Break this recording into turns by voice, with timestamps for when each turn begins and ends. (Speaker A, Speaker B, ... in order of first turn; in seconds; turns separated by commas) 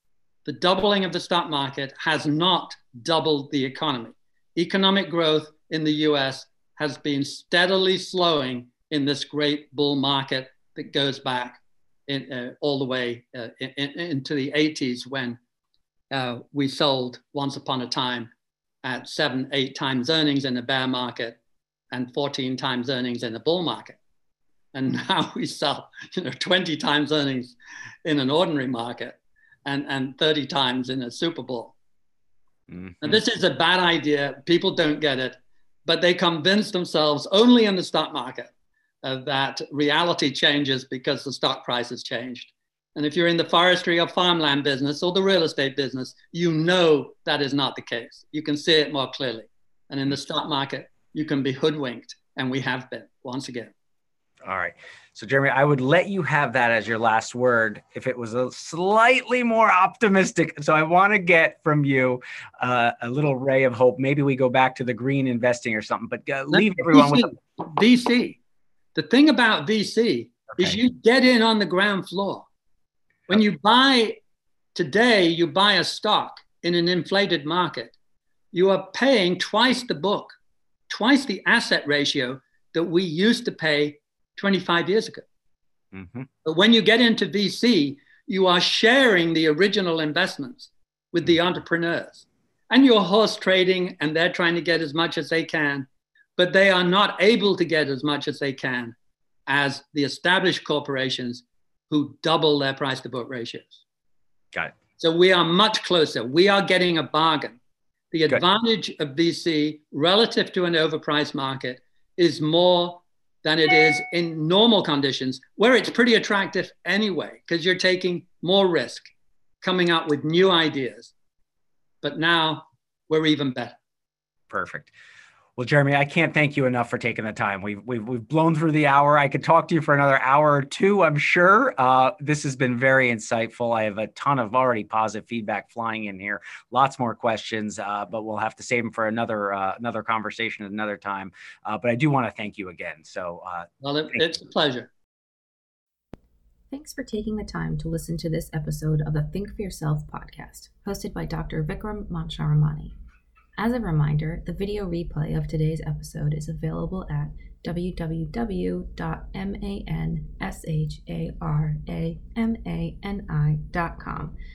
Speaker A: 0.5-15.4, Speaker A: 16.1-18.3, Speaker A: 18.8-21.4, Speaker A: 21.9-24.0, Speaker A: 24.7-31.8, Speaker B: 32.7-33.2, Speaker A: 33.0-38.5, Speaker A: 39.0-53.7, Speaker B: 54.4-67.3, Speaker A: 66.5-68.4, Speaker A: 69.0-72.5, Speaker A: 73.3-74.2, Speaker A: 74.8-77.9, Speaker A: 78.5-80.4, Speaker A: 80.9-85.2, Speaker B: 85.9-86.3, Speaker A: 86.4-99.0, Speaker A: 99.5-103.8, Speaker A: 105.0-107.6, Speaker A: 108.1-119.1, Speaker A: 119.6-121.1, Speaker A: 122.0-123.8, Speaker B: 124.5-124.9, Speaker B: 125.6-144.2, Speaker A: 143.8-144.9, Speaker C: 146.7-152.9, Speaker C: 153.6-164.3